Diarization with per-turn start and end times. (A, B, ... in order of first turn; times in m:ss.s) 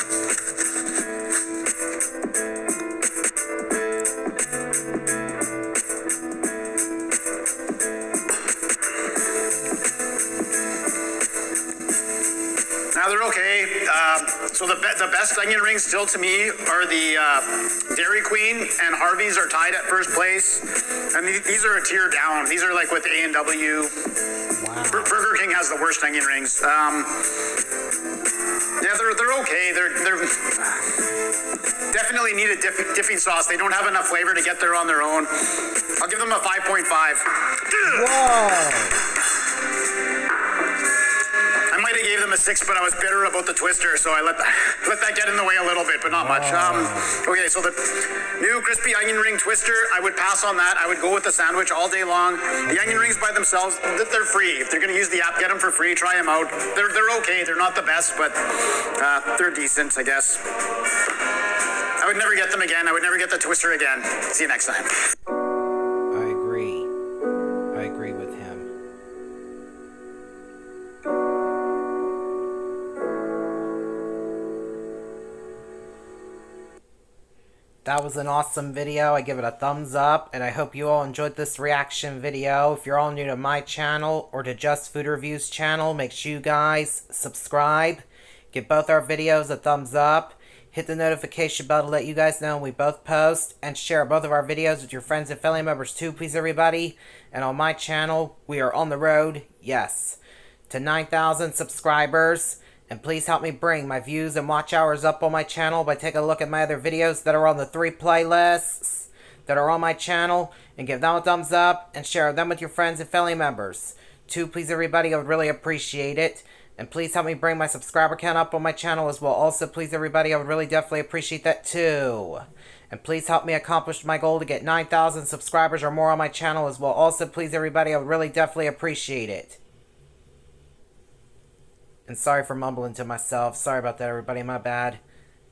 0:12.9-0:24.0 A
0:24.6-0:25.2 B
0:24.9-0:27.3 A
0:28.8-0:30.9 A
0:31.9-0:38.1 A
0:37.8-0:39.0 B
0:41.7-1:00.4 A
0:46.0-0:47.3 B
0:52.6-0:53.2 B
1:02.0-1:04.9 A
1:06.1-1:06.9 B
1:07.7-1:08.7 B
1:17.8-2:09.6 B
2:12.1-2:15.0 B